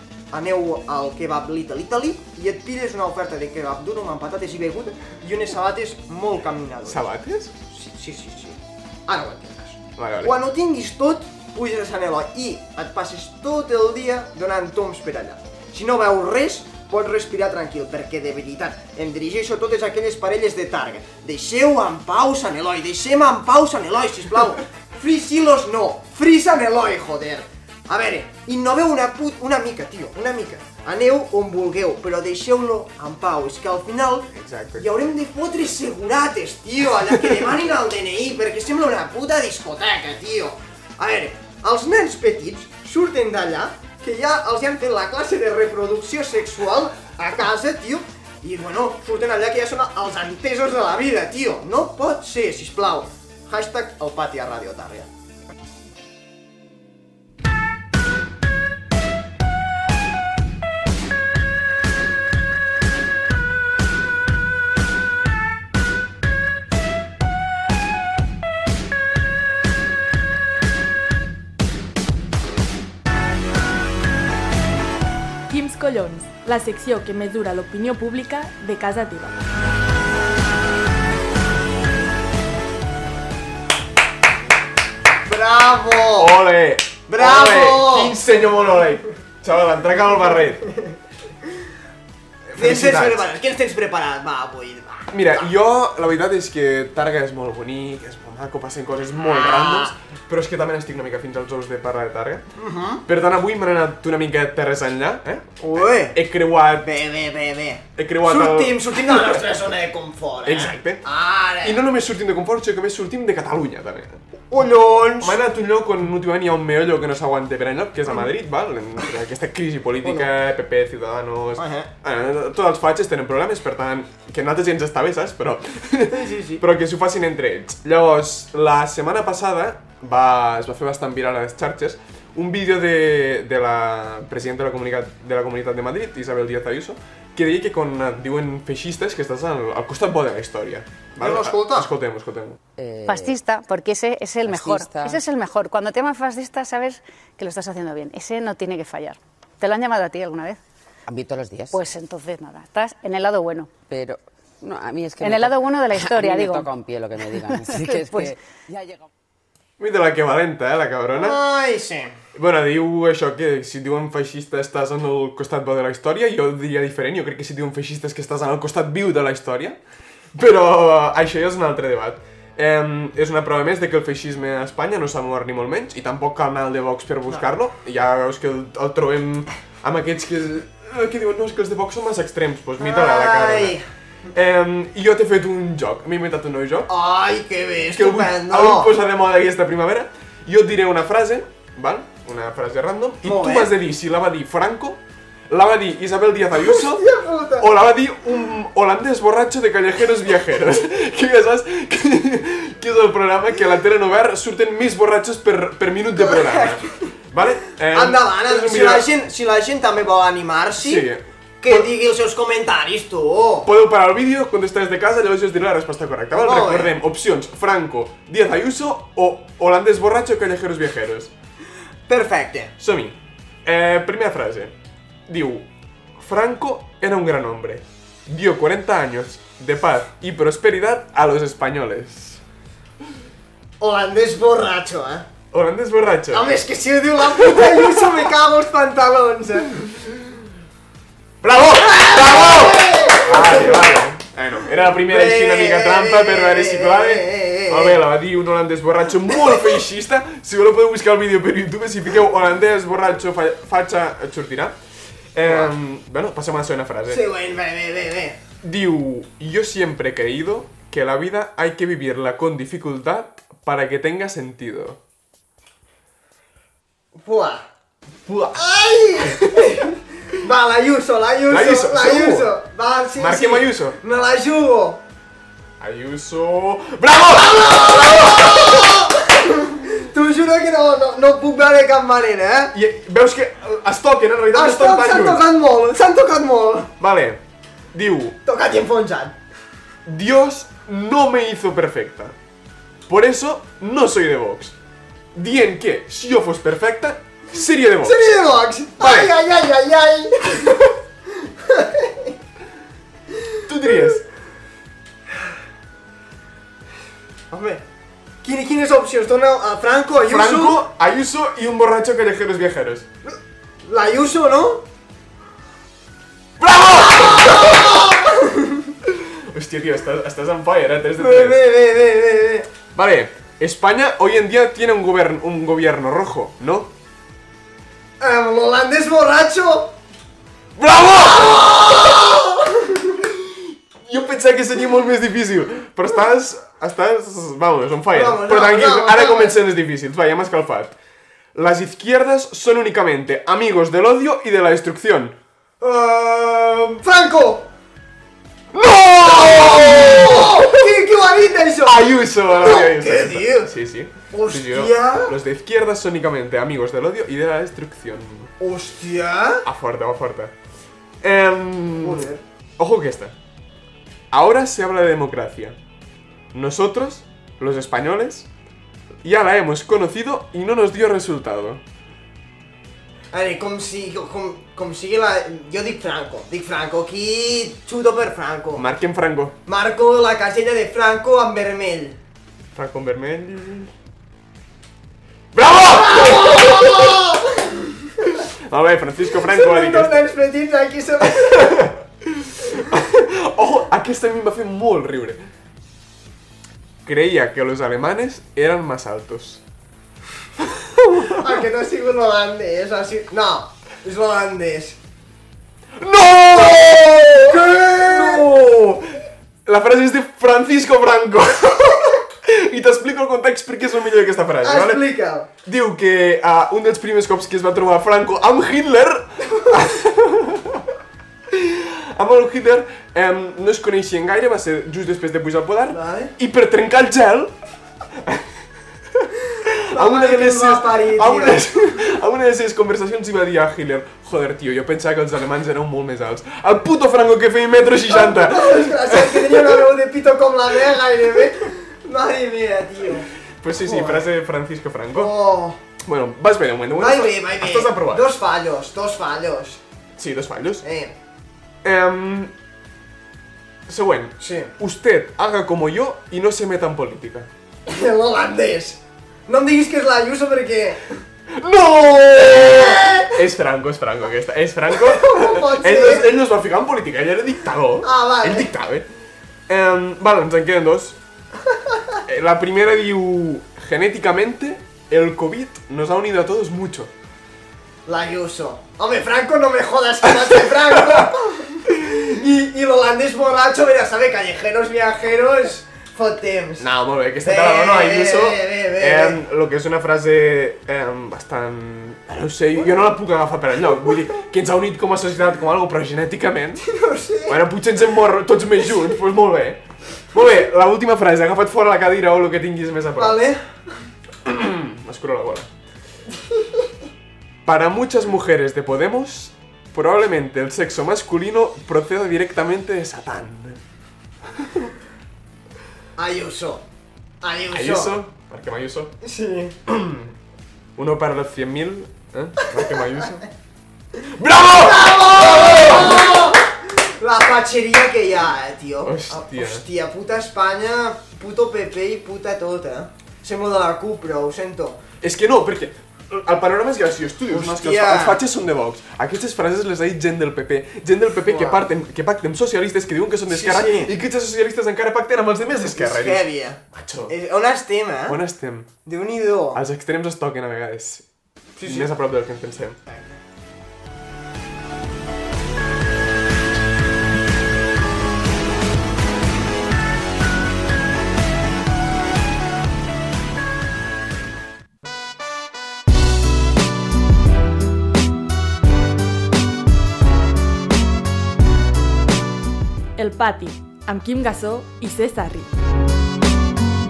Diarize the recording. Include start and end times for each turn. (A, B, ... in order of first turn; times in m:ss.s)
0:00.3-0:07.1 A
0:06.8-0:07.5 B
0:07.6-0:55.1 A
0:10.0-0:10.4 B
0:34.3-0:34.9 B
1:15.5-1:19.3 C
1:25.2-1:26.4 A
1:26.2-1:30.7 B
1:27.1-1:28.2 A
1:32.5-1:33.2 B
1:32.5-1:35.5 A
1:35.1-1:42.4 B
1:39.2-1:39.9 A
1:42.6-1:43.0 A
1:43.0-1:46.9 B
1:45.6-1:46.2 A
1:46.8-1:51.8 A
1:48.0-1:49.5 B
1:50.4-1:51.0 B
1:51.6-1:54.2 B
1:54.5-1:55.4 A
1:55.2-2:22.6 B
2:01.6-2:01.9 A
2:06.1-2:06.6 A
2:21.2-2:21.9 A
2:22.8-2:23.4 D
2:23.0-2:30.6 E
2:24.4-2:25.2 D
2:31.1-2:31.8 D
2:31.7-2:33.7 E
2:33.9-2:39.1 D
2:35.2-2:36.7 E
2:37.4-2:38.3 E
2:39.8-2:41.4 B
2:41.1-2:42.2 A
2:42.3-2:49.8 B
2:50.3-3:03.8 B
3:02.8-3:03.8 A
3:04.3-3:06.9 B
3:06.9-3:08.9 A
3:07.9-3:29.1 B
3:13.2-3:13.7 A
3:16.6-3:17.7 A
3:26.2-3:27.1 A
3:27.9-3:31.1 A
3:30.8-3:31.9 B
3:31.6-3:33.7 A
3:33.6-3:41.3 B
3:36.4-3:36.9 A
3:42.1-3:42.7 A
3:42.8-3:44.7 B
3:45.3-3:52.4 B
3:53.8-3:55.3 A
3:55.5-3:56.6 B
3:56.3-3:59.9 A
3:57.3-3:58.2 B
4:01.4-4:14.8 B
4:01.8-4:04.0 A
4:04.9-4:08.0 A
4:15.3-4:17.3 B
4:15.4-4:15.7 A
4:17.1-4:18.4 A
4:18.6-4:25.0 B
4:27.2-4:27.6 A
4:28.2-4:29.8 B
4:28.6-4:35.0 A
4:31.5-4:32.5 B
4:33.2-4:34.0 B
4:35.8-4:39.0 B
4:37.3-4:42.7 A
4:42.7-4:45.4 B
4:44.5-4:46.9 A
4:47.0-4:47.4 B
4:47.9-4:48.4 B
4:48.4-4:49.4 A
4:50.0-4:52.3 B
4:53.1-4:54.7 B
4:55.3-4:58.4 B
4:58.0-5:02.3 A
4:59.0-4:59.3 B
5:03.4-5:04.0 A
5:03.7-5:04.2 B
5:07.5-5:07.8 A
5:08.4-5:10.8 A
5:10.2-5:13.1 B
5:13.8-5:14.8 A
5:16.6-5:18.0 B
5:16.9-5:18.9 A
5:19.0-5:21.7 B
5:21.2-5:22.7 A
5:22.9-5:26.9 B
5:28.2-5:29.9 A
5:30.8-5:32.2 B
5:31.4-5:33.1 A
5:33.3-5:40.9 B
5:38.1-5:39.6 A
5:41.5-5:45.4 B
5:45.8-5:47.7 A
5:48.7-5:50.9 B
5:49.2-5:53.7 A
5:51.8-5:58.5 B
5:54.3-5:55.3 A
5:58.6-5:59.7 A
5:59.6-6:00.5 B
6:01.2-6:03.3 B
6:02.0-6:02.4 A
6:04.3-6:05.8 B
6:06.5-6:08.5 B
6:09.2-6:11.8 B
6:13.3-6:18.8 A
6:18.7-6:19.6 B
6:19.6-6:22.2 A
6:22.7-6:23.9 B
6:25.5-6:27.3 B
6:25.9-6:28.4 A
6:28.3-6:30.2 B
6:29.4-6:31.9 A
6:31.3-6:35.4 B
6:37.0-6:39.6 B
6:40.6-6:41.5 B
6:41.2-6:45.0 A
6:46.0-6:49.1 B
6:47.4-6:48.5 A
6:49.6-6:55.0 B
6:54.6-6:55.5 A
6:55.6-7:00.9 B
7:01.5-7:07.5 B
7:05.9-7:06.3 A
7:08.2-7:08.5 B
7:09.2-7:19.9 B
7:09.9-7:11.6 A
7:18.1-7:23.3 A
7:23.6-7:25.3 B
7:23.8-7:24.3 A
7:25.1-7:25.8 A
7:26.0-7:28.3 B
7:27.0-7:29.8 A
7:30.2-7:30.8 B
7:30.8-7:31.1 A
7:31.8-7:32.5 B
7:33.9-7:37.5 B
7:34.4-7:34.7 A
7:37.8-7:41.0 A
7:41.5-7:49.1 B
7:42.6-7:43.3 A
7:44.9-7:46.3 A
7:48.0-7:48.7 A
7:49.7-7:51.2 B
7:51.7-7:52.2 A
7:52.2-7:57.1 B
7:58.1-8:06.9 A
8:00.5-8:01.3 B
8:06.8-8:16.8 B
8:07.4-8:09.4 A
8:16.8-8:17.6 A
8:17.4-8:23.4 B
8:23.2-8:23.6 A
8:24.4-8:25.7 B
8:27.6-8:33.8 B
8:34.5-8:34.9 B
8:36.2-8:36.8 A
8:37.4-8:38.2 A
8:37.7-8:39.2 B
8:39.2-8:39.8 A
8:39.9-8:40.3 B
8:41.0-8:43.4 B
8:44.3-8:46.6 B
8:44.6-8:55.0 A
8:49.0-8:49.8 B
8:55.2-9:07.3 B
8:57.5-8:58.4 A
9:01.4-9:01.8 A
9:03.5-9:04.1 A
9:05.8-9:08.4 A
9:08.3-9:08.9 B
9:09.0-9:09.8 A
9:09.7-9:11.2 B
9:11.8-9:12.1 A
9:11.8-9:13.0 B
9:13.1-9:13.4 A
9:33.2-9:35.7 C